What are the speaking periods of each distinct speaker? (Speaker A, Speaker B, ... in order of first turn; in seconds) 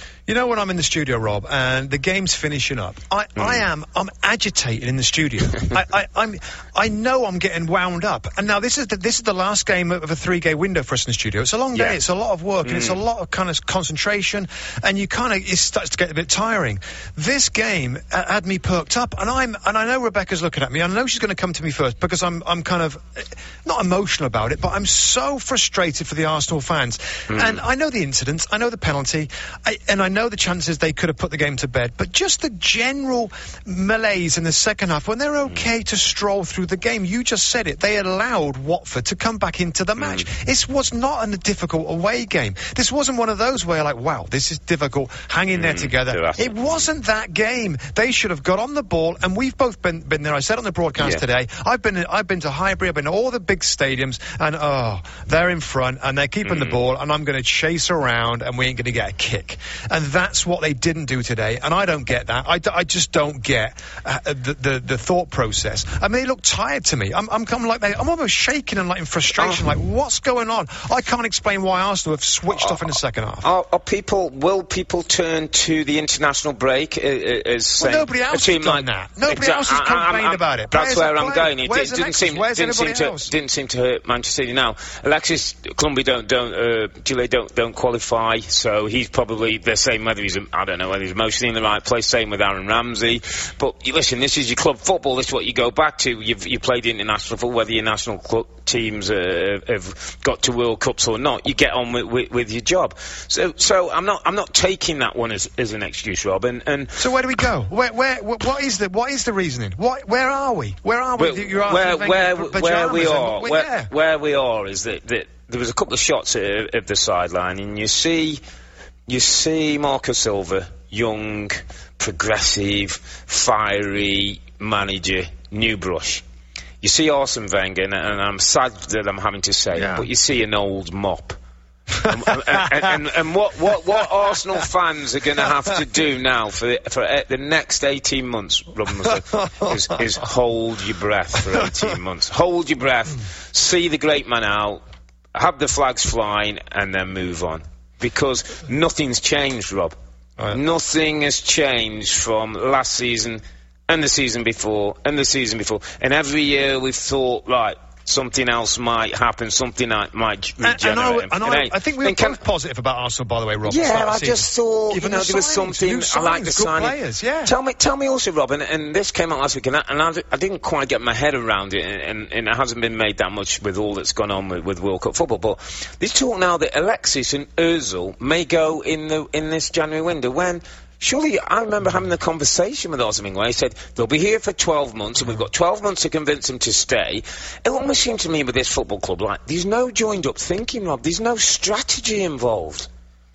Speaker A: 0.3-73.5, 77.8-83.3, 107.0-113.9, 129.7-130.1, 132.0-132.7, 160.6-167.5
Speaker B: 3.4-3.6, 12.6-13.0, 27.3-27.6, 40.0-40.2, 45.5-46.8, 56.5-56.7, 73.4-107.0, 111.2-118.4, 119.1-126.2, 126.8-131.4, 132.1-144.8, 145.3-149.9, 150.5-162.4, 163.7-192.9